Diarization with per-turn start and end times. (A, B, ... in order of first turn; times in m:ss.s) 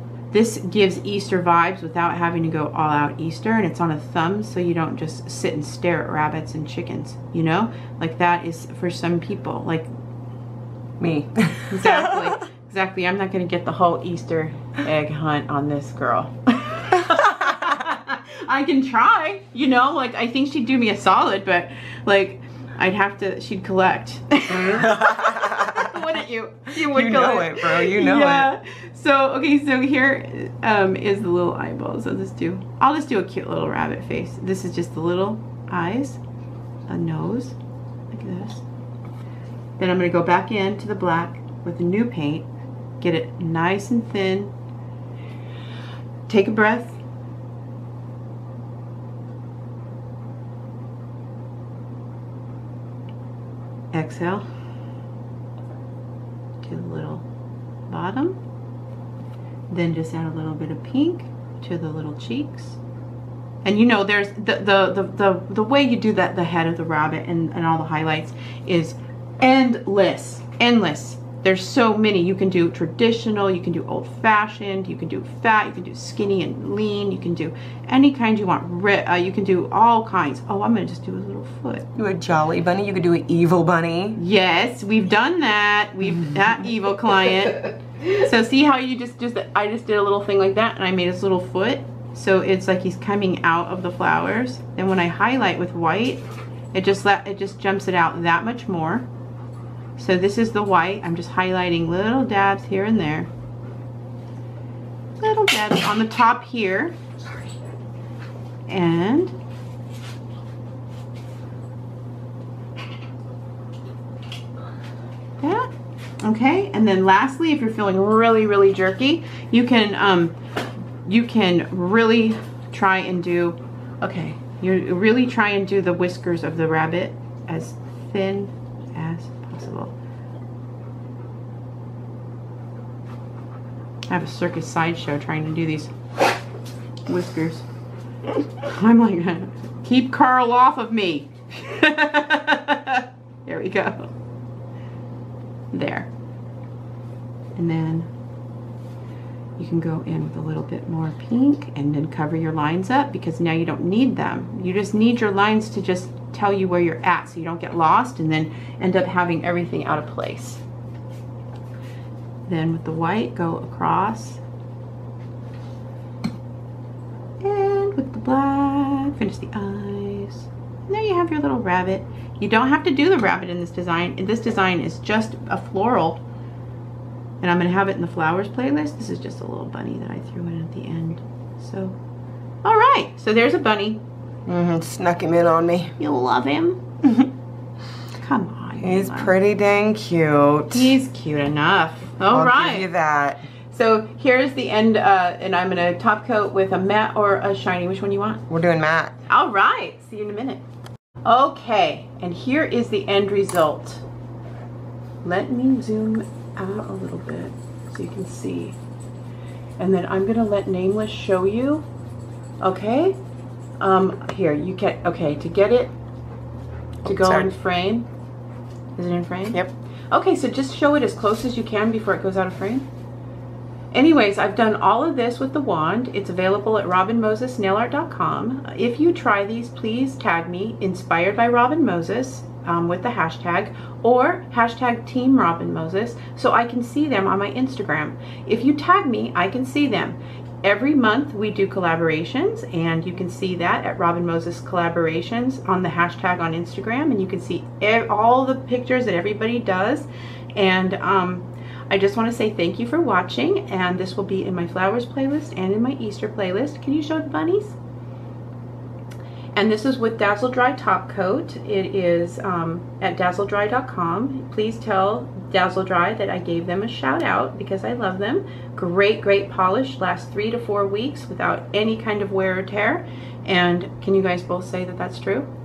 0:00.3-0:09.9 A
0:11.0-0:12.2 B
0:11.7-0:24.9 A
0:24.6-0:25.9 B
0:25.5-0:36.2 A
0:26.9-0:28.5 B
0:36.9-0:37.6 A
0:38.1-0:38.6 A
0:39.8-0:42.5 A
0:43.0-0:44.5 A
0:46.3-0:47.0 A
0:53.9-0:54.4 A
0:56.6-0:57.2 A
0:57.9-0:58.4 A
0:59.7-1:02.8 A
1:03.6-1:21.9 A
1:22.0-1:24.2 B
1:24.2-1:39.1 A
1:40.0-1:43.3 A
1:45.2-1:46.9 A
1:48.7-1:49.3 A
1:55.4-1:55.7 A
1:56.2-2:00.4 A
2:01.0-2:09.9 A
2:14.1-2:15.9 A
2:17.0-2:17.6 A
2:18.6-2:24.1 A
2:25.7-2:26.1 A
2:27.6-2:28.1 A
2:29.6-2:40.6 A
2:42.4-2:44.4 A
2:47.4-2:56.2 A
2:57.4-3:02.0 A
3:02.6-3:04.0 A
3:04.5-3:05.9 B
3:06.0-3:06.8 A
3:08.2-3:09.3 A
3:08.8-3:10.9 B
3:10.7-3:12.9 A
3:12.3-3:13.4 B
3:13.7-3:18.4 A
3:18.5-3:19.1 B
3:19.3-3:20.6 A
3:21.2-3:24.0 A
3:25.2-3:28.8 A
3:29.8-3:31.8 A
3:32.6-3:33.1 A
3:33.8-3:35.9 A
3:37.0-3:37.5 B
3:37.0-3:38.1 A
3:39.0-3:42.9 A
3:43.9-4:17.8 A
4:19.5-4:35.5 A